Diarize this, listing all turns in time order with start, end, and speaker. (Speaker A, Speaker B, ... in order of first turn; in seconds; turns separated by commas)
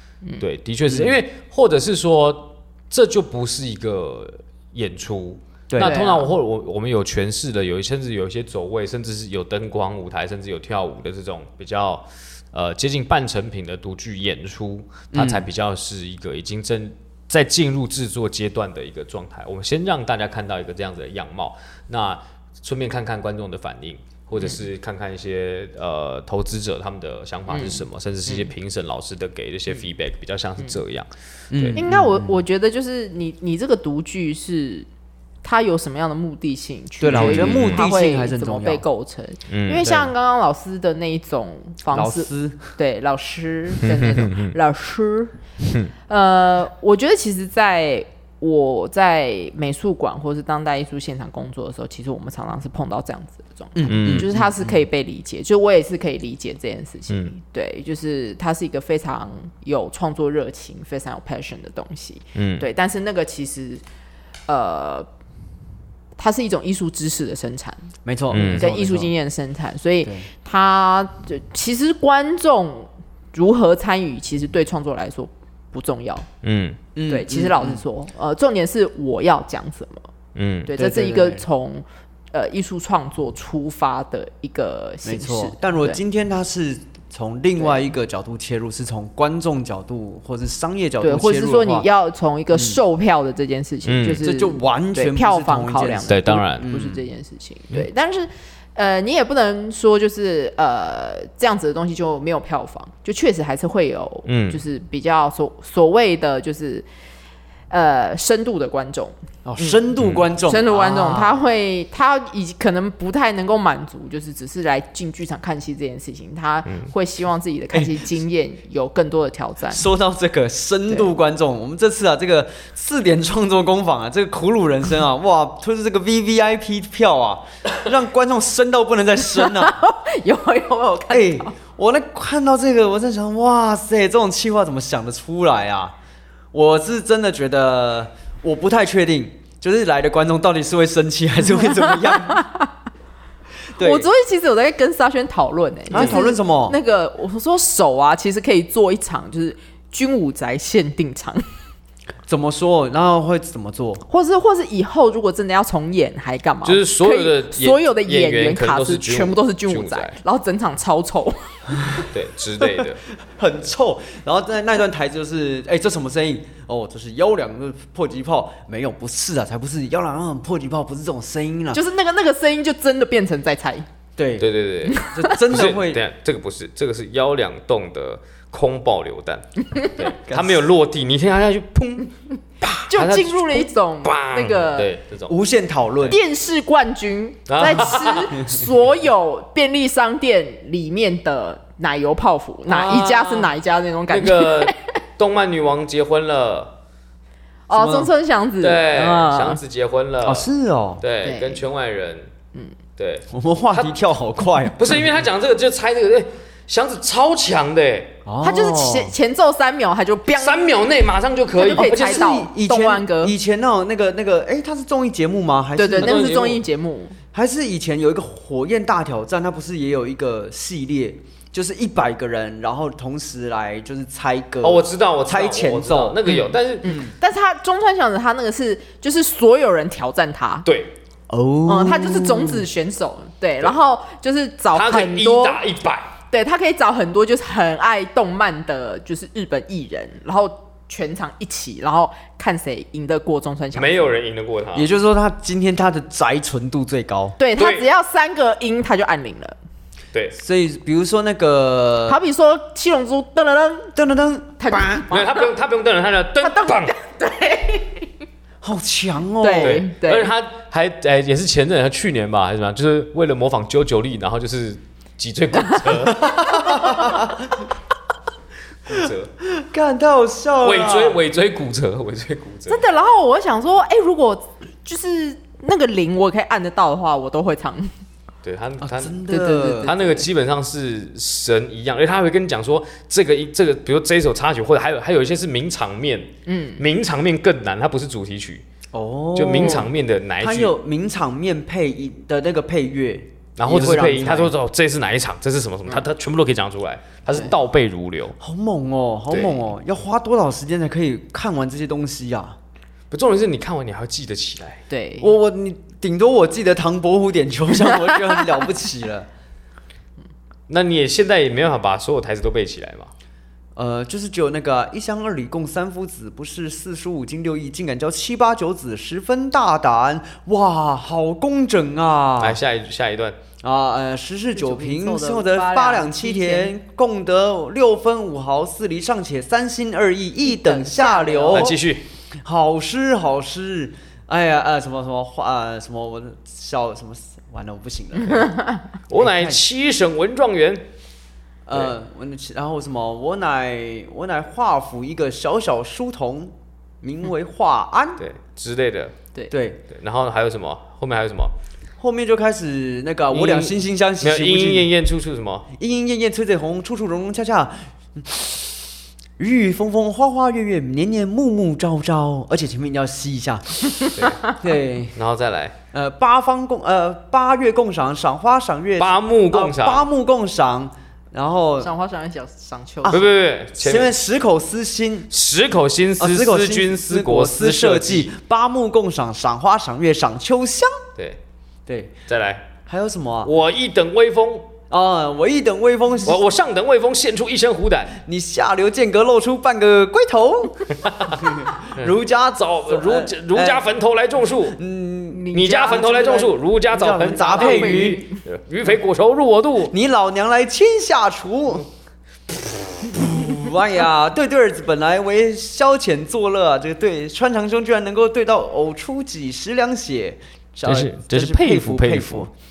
Speaker A: 0.4-31.8, Speaker B: 0.9-1.2, Speaker B: 5.7-6.0, Speaker C: 5.8-6.3, Speaker B: 15.1-15.5, Speaker C: 27.5-28.5, Speaker B: 31.5-32.4, Speaker C: 31.8-34.9, Speaker C: 35.4-45.3, Speaker B: 37.0-38.8, Speaker A: 37.1-37.8, Speaker A: 39.5-40.0, Speaker B: 39.9-40.1, Speaker B: 41.9-42.7, Speaker A: 43.8-44.5, Speaker A: 45.6-45.9, Speaker C: 46.1-63.8, Speaker B: 53.8-54.8, Speaker A: 53.9-54.3, Speaker A: 62.4-62.7, Speaker C: 64.5-65.1, Speaker C: 66.2-67.9, Speaker B: 68.0-69.1, Speaker A: 68.3-68.7, Speaker C: 68.5-76.3, Speaker A: 76.4-76.8, Speaker B: 77.0-77.8, Speaker C: 77.1-80.1, Speaker A: 80.3-80.7, Speaker C: 80.7-86.0, Speaker B: 80.7-81.5, Speaker B: 85.0-91.9, Speaker C: 87.6-87.8, Speaker C: 91.0-106.9, Speaker B: 92.5-92.8, Speaker A: 93.9-94.2, Speaker B: 94.2-97.0, Speaker A: 96.1-96.7, Speaker A: 104.3-104.6, Speaker C: 107.7-109.8, Speaker B: 109.5-111.4, Speaker A: 110.0-110.3, Speaker C: 110.5-119.9, Speaker A: 116.7-116.9, Speaker B: 117.7-118.0, Speaker B: 119.7-129.8, Speaker C: 129.3-131.5, Speaker B: 131.1-135.9, Speaker B: 136.5-142.4, Speaker C: 142.1-142.7, Speaker B: 143.8-144.1, Speaker C: 143.8-151.4, Speaker B: 145.9-146.8, Speaker B: 152.3-154.0, Speaker C: 154.1-161.6, Speaker A: 156.6-160.2, Speaker A: 162.1-163.0, Speaker B: 162.6-171.8, Speaker C: 171.7-173.9, Speaker B: 174.2-176.0, Speaker A: 174.4-185.4, Speaker C: 174.9-175.3, Speaker B: 180.2-180.7, Speaker C: 182.9-184.9, Speaker B: 185.3-186.2, Speaker C: 186.1-194.8, Speaker A: 187.5-188.4, Speaker A: 192.7-193.5, Speaker A: 194.1-196.7, Speaker C: 197.7-199.6, Speaker B: 197.7-198.1, Speaker A: 198.6-200.5, Speaker B: 200.2-201.0, Speaker A: 201.0-202.3, Speaker C: 201.2-201.6, Speaker A: 203.0-203.9, Speaker B: 203.3-205.1, Speaker A: 204.8-208.2, Speaker B: 208.2-209.1, Speaker C: 208.4-210.7, Speaker A: 210.3-212.3, Speaker C: 211.5-213.3, Speaker B: 211.7-216.6, Speaker C: 215.8-217.2, Speaker A: 216.0-216.6, Speaker B: 217.3-226.2, Speaker A: 224.6-227.0, Speaker C: 226.2-230.7, Speaker A: 230.7-230.9, Speaker B: 231.3-232.7, Speaker C: 231.7-235.6, Speaker A: 234.7-236.1, Speaker C: 236.3-244.1, Speaker A: 243.7-244.9, Speaker B: 244.7-247.4, Speaker C: 247.4-249.6, Speaker A: 247.6-247.9, Speaker B: 250.3-252.2, Speaker C: 252.1-253.9, Speaker B: 253.9-255.1, Speaker C: 254.6-255.5, Speaker A: 255.1-256.9, Speaker C: 256.4-258.1, Speaker B: 258.6-259.8, Speaker C: 259.4-260.3, Speaker A: 259.6-267.2, Speaker B: 266.2-267.5, Speaker A: 268.9-269.3, Speaker B: 268.9-271.2, Speaker A: 270.6-272.8, Speaker C: 272.7-277.9, Speaker A: 278.4-279.2, Speaker B: 278.8-279.9, Speaker C: 279.3-280.3, Speaker A: 279.8-288.6, Speaker C: 286.5-286.8, Speaker B: 288.9-294.5, Speaker A: 289.4-290.7, Speaker A: 293.6-298.4, Speaker B: 298.4-302.6, Speaker A: 299.3-299.6, Speaker A: 303.1-304.9, Speaker C: 304.9-305.3, Speaker B: 305.2-309.3, Speaker A: 310.7-313.1, Speaker B: 313.8-322.6, Speaker A: 322.4-323.4, Speaker B: 323.6-331.8, Speaker C: 324.5-326.7, Speaker C: 330.4-331.8, Speaker A: 331.5-332.1, Speaker B: 332.4-338.6, Speaker C: 338.3-338.8, Speaker A: 339.1-340.9, Speaker B: 339.2-339.6, Speaker B: 341.7-348.2, Speaker A: 348.2-349.1, Speaker B: 349.5-349.8, Speaker A: 349.9-351.5, Speaker B: 352.0-354.9, Speaker A: 353.3-355.7, Speaker B: 355.7-358.9, Speaker B: 359.4-365.2, Speaker A: 364.2-364.5, Speaker A: 365.2-365.8, Speaker B: 365.9-371.9, Speaker A: 369.0-370.1, Speaker C: 371.8-373.3, Speaker A: 373.1-374.1, Speaker B: 373.8-375.3, Speaker A: 375.3-378.3, Speaker B: 376.2-381.0, Speaker B: 381.9-382.1, Speaker A: 382.3-382.7, Speaker B: 382.9-383.5, Speaker A: 383.4-384.7, Speaker B: 384.9-386.4, Speaker A: 386.2-388.2, Speaker B: 388.2-393.9, Speaker A: 391.1-392.1, Speaker A: 392.7-394.8, Speaker B: 394.7-398.2, Speaker C: 395.3-396.2, Speaker A: 395.5-399.9, Speaker C: 397.4-398.4, Speaker B: 399.9-401.9, Speaker B: 403.1-412.5, Speaker A: 410.9-412.5